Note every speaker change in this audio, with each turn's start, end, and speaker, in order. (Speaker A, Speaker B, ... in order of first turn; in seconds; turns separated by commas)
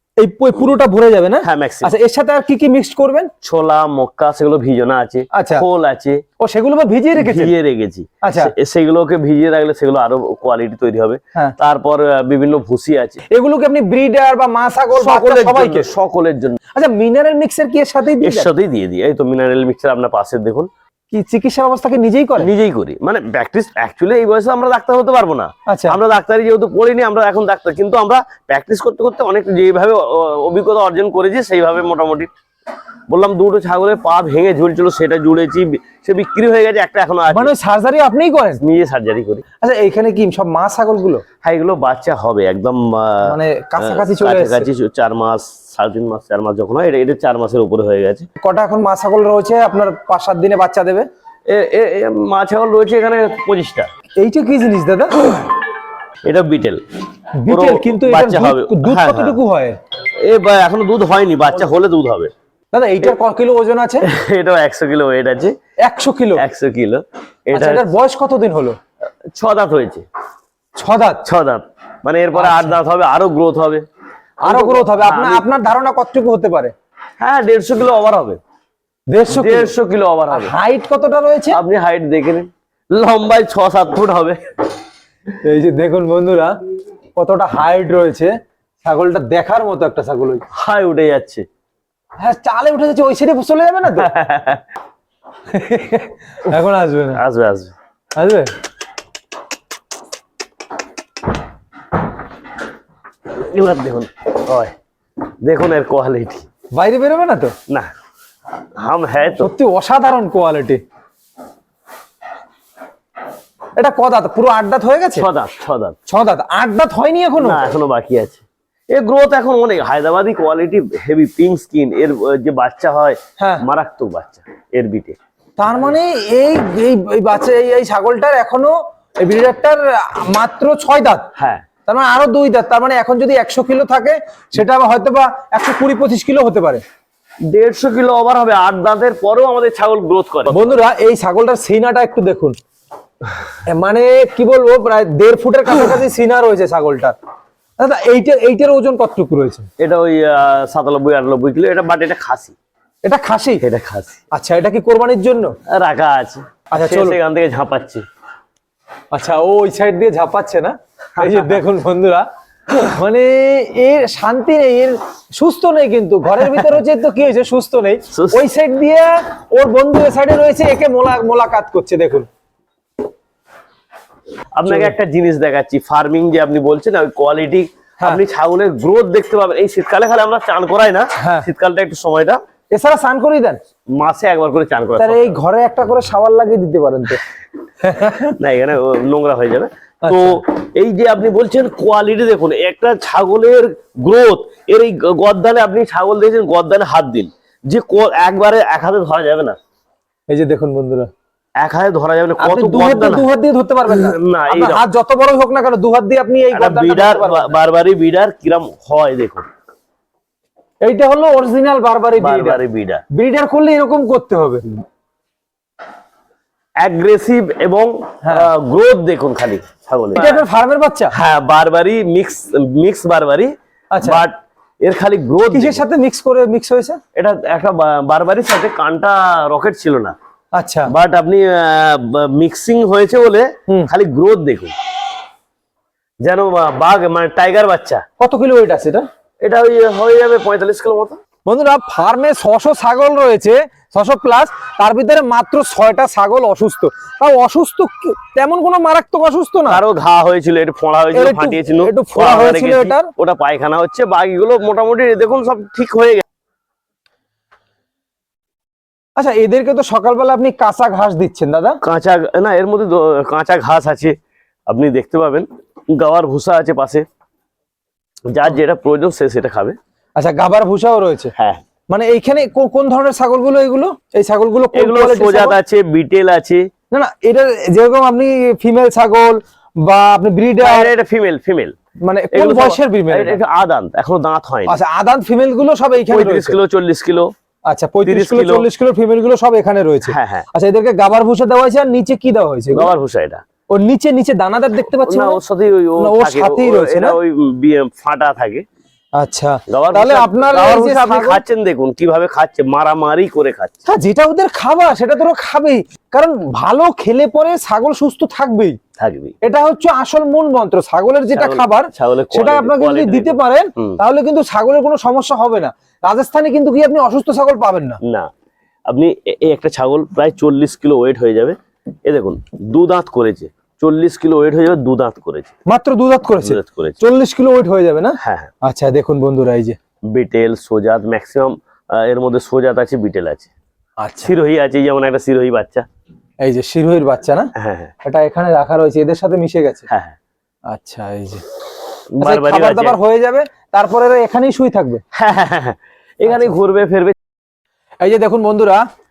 Speaker A: 0.2-3.3, Speaker B: 1.4-1.9, Speaker B: 3.4-6.2, Speaker A: 5.3-5.6, Speaker A: 6.4-7.5, Speaker B: 7.2-13.2, Speaker A: 8.2-8.5, Speaker A: 13.3-15.9, Speaker B: 14.9-16.6, Speaker A: 16.7-18.5, Speaker B: 18.2-20.7, Speaker A: 21.1-22.5, Speaker B: 22.4-32.3, Speaker A: 25.7-26.0, Speaker B: 33.1-37.5, Speaker A: 37.3-38.6, Speaker B: 38.6-39.4, Speaker A: 39.6-41.2, Speaker B: 41.4-48.3, Speaker A: 43.2-44.7, Speaker A: 48.4-51.1, Speaker B: 51.5-53.9, Speaker A: 54.2-55.3, Speaker B: 56.2-56.8, Speaker A: 57.4-59.8, Speaker B: 57.5-59.4, Speaker B: 60.1-62.3, Speaker A: 62.7-64.0, Speaker B: 64.0-65.5, Speaker A: 65.8-66.4, Speaker B: 66.3-67.9, Speaker A: 67.5-68.8, Speaker B: 69.3-70.0, Speaker A: 70.8-71.2, Speaker B: 71.2-73.8, Speaker A: 72.3-72.8, Speaker B: 74.4-75.5, Speaker A: 74.4-76.7, Speaker B: 77.2-78.4, Speaker A: 79.1-79.7, Speaker B: 79.3-80.5, Speaker A: 80.3-81.6, Speaker B: 81.5-84.4, Speaker A: 85.4-86.5, Speaker A: 87.2-88.3, Speaker A: 88.8-90.4, Speaker B: 90.5-91.5, Speaker A: 92.2-94.1, Speaker B: 94.0-94.7, Speaker A: 95.5-97.2, Speaker B: 97.1-97.7, Speaker A: 98.2-98.5, Speaker B: 103.3-104.7, Speaker B: 105.4-106.5, Speaker A: 106.8-107.5, Speaker B: 108.8-109.5, Speaker A: 109.3-110.8, Speaker A: 113.8-115.2, Speaker B: 115.2-116.0, Speaker A: 116.1-117.6, Speaker B: 117.4-125.2, Speaker A: 125.6-131.3, Speaker B: 131.4-131.6, Speaker A: 131.8-136.8, Speaker B: 137.5-140.8, Speaker A: 140.5-142.6, Speaker A: 143.7-147.2, Speaker A: 147.8-149.7, Speaker B: 149.8-152.5, Speaker A: 153.0-153.6, Speaker B: 153.6-154.2, Speaker A: 154.3-155.5, Speaker B: 155.7-158.0, Speaker A: 156.7-157.2, Speaker A: 159.1-162.3, Speaker B: 161.2-161.6, Speaker A: 162.8-172.3, Speaker B: 168.1-168.4, Speaker B: 174.6-182.4, Speaker A: 174.7-174.9, Speaker A: 181.2-181.5, Speaker A: 182.7-183.6, Speaker B: 183.9-185.4, Speaker A: 185.0-187.2, Speaker A: 187.8-188.3, Speaker B: 188.4-199.6, Speaker A: 190.0-190.4, Speaker A: 200.3-201.1, Speaker B: 201.6-203.3, Speaker A: 202.4-207.5, Speaker B: 203.9-204.8, Speaker B: 206.5-209.4, Speaker A: 210.8-212.6, Speaker B: 212.2-213.0, Speaker A: 213.1-214.6, Speaker B: 216.8-220.4, Speaker A: 220.1-221.1, Speaker B: 221.1-225.8, Speaker A: 223.9-224.2, Speaker A: 225.5-227.0, Speaker B: 227.1-230.2, Speaker A: 230.5-230.9, Speaker B: 230.9-234.7, Speaker B: 236.2-238.0, Speaker A: 238.2-239.1, Speaker B: 239.4-241.2, Speaker A: 241.4-249.8, Speaker B: 249.7-256.2, Speaker A: 251.1-253.1, Speaker A: 259.2-261.8, Speaker B: 261.8-264.2, Speaker B: 264.7-267.1, Speaker B: 268.3-269.8, Speaker A: 270.2-271.3, Speaker B: 271.4-271.6, Speaker A: 271.9-275.6, Speaker B: 274.7-276.7, Speaker A: 276.9-280.9, Speaker B: 280.6-281.8, Speaker A: 282.0-283.4, Speaker B: 282.3-284.8, Speaker A: 284.7-286.6, Speaker B: 286.0-287.3, Speaker A: 287.7-292.9, Speaker B: 288.0-288.7, Speaker B: 290.1-290.5, Speaker B: 292.7-293.4, Speaker A: 293.7-295.4, Speaker B: 295.1-298.6, Speaker A: 296.0-297.2, Speaker A: 299.2-301.4, Speaker B: 299.7-303.8, Speaker A: 303.9-308.8, Speaker B: 309.0-309.3, Speaker A: 309.4-318.0, Speaker B: 311.3-314.0, Speaker B: 318.0-318.3, Speaker B: 318.9-325.5, Speaker A: 325.7-329.8, Speaker B: 326.4-327.0, Speaker B: 328.2-328.5, Speaker B: 330.1-333.5, Speaker A: 334.0-334.3, Speaker B: 334.2-335.9, Speaker A: 336.4-337.5, Speaker B: 337.6-337.9, Speaker A: 338.0-339.9, Speaker B: 339.9-340.1, Speaker A: 340.7-341.4, Speaker B: 342.1-343.0, Speaker A: 342.2-345.0, Speaker B: 345.1-347.1, Speaker A: 346.3-346.5, Speaker A: 348.0-348.8